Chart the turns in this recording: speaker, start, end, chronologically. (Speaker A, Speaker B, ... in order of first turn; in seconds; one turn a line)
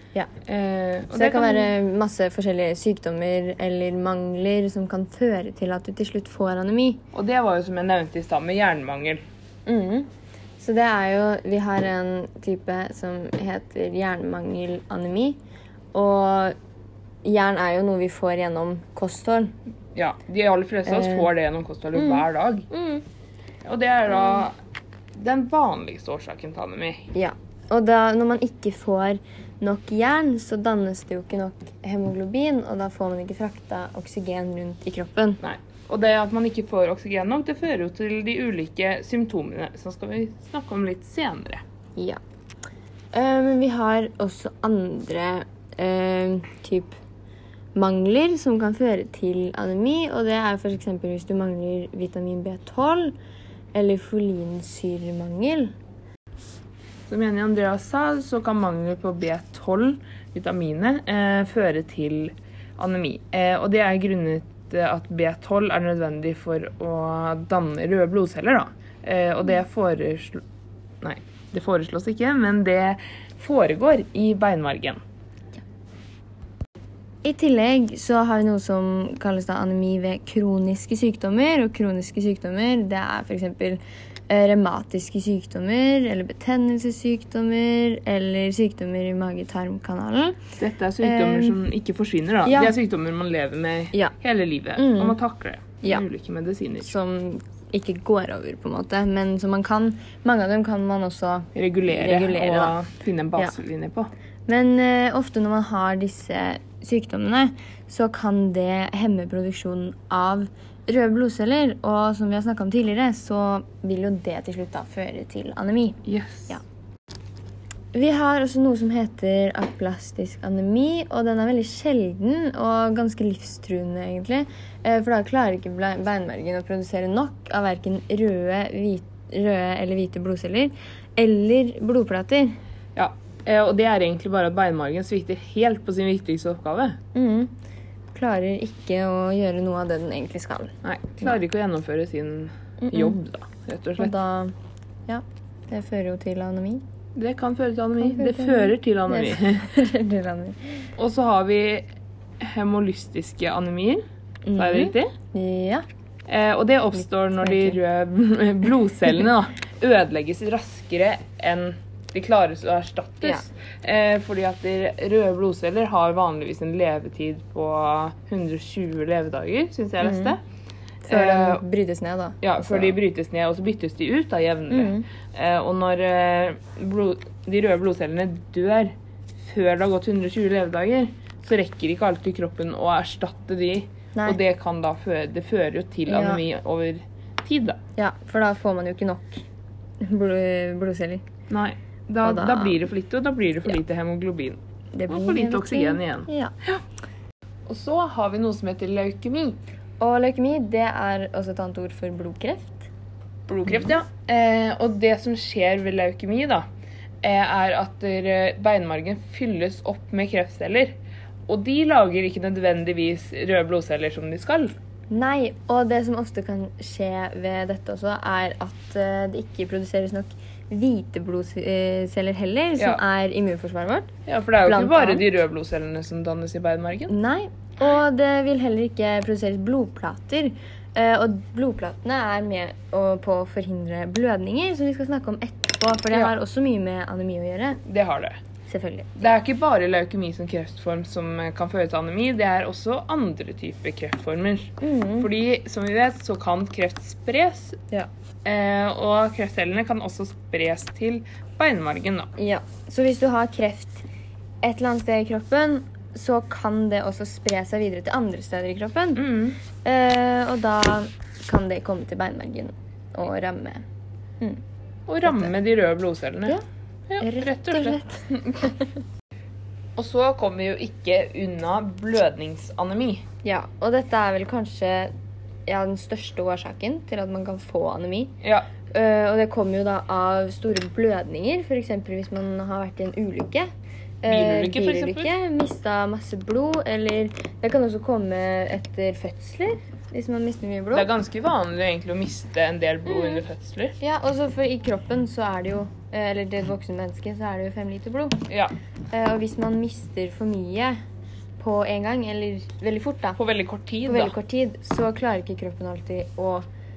Speaker A: 0.4-1.7
Speaker B: 1.1-7.0
Speaker A: 7.1-9.2
Speaker B: 9.7-15.4
Speaker B: 15.9-16.5
Speaker B: 17.2-19.5
Speaker A: 19.9-22.7
Speaker B: 20.9-21.3
Speaker B: 21.9-23.0
Speaker A: 23.6-24.6
Speaker A: 25.1-27.1
Speaker B: 27.1-35.4
Speaker A: 35.4-41.6
Speaker B: 43.1-46.9
Speaker B: 47.7-53.1
Speaker B: 53.7-55.7
Speaker A: 57.1-70.4
Speaker A: 71.0-75.0
Speaker B: 77.2-90.4
Speaker A: 90.6-96.9
Speaker B: 91.0-91.6
Speaker B: 92.5-92.7
Speaker B: 94.8-95.2
Speaker B: 96.8-102.8
Speaker A: 101.5-104.1
Speaker B: 104.5-116.6
Speaker A: 116.0-116.5
Speaker B: 117.9-132.6
Speaker A: 132.9-137.0
Speaker B: 137.1-137.5
Speaker B: 138.1-140.7
Speaker A: 140.8-144.1
Speaker B: 142.8-143.2
Speaker B: 144.0-144.5
Speaker B: 145.1-146.8
Speaker A: 147.2-149.7
Speaker B: 148.0-150.9
Speaker A: 151.0-151.9
Speaker A: 152.4-154.0
Speaker B: 154.4-155.8
Speaker A: 154.5-155.1
Speaker A: 156.3-170.4
Speaker B: 157.4-157.8
Speaker B: 170.0-170.3
Speaker B: 171.0-172.9
Speaker A: 171.1-171.6
Speaker A: 172.4-178.9
Speaker B: 174.7-175.1
Speaker A: 179.4-187.8
Speaker B: 186.1-186.4
Speaker B: 187.9-189.4
Speaker B: 190.0-191.2
Speaker A: 191.5-196.8
Speaker B: 192.2-192.8
Speaker B: 194.9-196.5
Speaker A: 197.7-199.6
Speaker B: 200.0-202.9
Speaker A: 203.5-206.6
Speaker A: 207.2-210.9
Speaker A: 211.5-214.7
Speaker B: 215.1-224.1
Speaker A: 224.3-227.1
Speaker B: 224.6-225.3
Speaker B: 227.1-237.8
Speaker A: 237.8-238.4
Speaker B: 238.7-239.3
Speaker A: 239.2-247.8
Speaker B: 244.8-245.3
Speaker A: 248.4-252.3
Speaker B: 252.4-254.0
Speaker B: 254.6-259.3
Speaker A: 259.1-259.6
Speaker B: 259.8-263.8
Speaker A: 265.1-266.6
Speaker A: 267.1-268.6
Speaker B: 267.2-268.9
Speaker A: 269.9-273.2
Speaker B: 273.4-275.1
Speaker B: 275.6-278.3
Speaker B: 278.9-283.7
Speaker B: 284.2-291.1
Speaker A: 284.3-285.3
Speaker A: 290.9-293.9
Speaker B: 293.1-293.4
Speaker B: 294.0-298.4
Speaker A: 298.5-298.7
Speaker B: 299.1-301.0
Speaker B: 301.6-303.4
Speaker A: 303.4-304.3
Speaker B: 304.0-306.7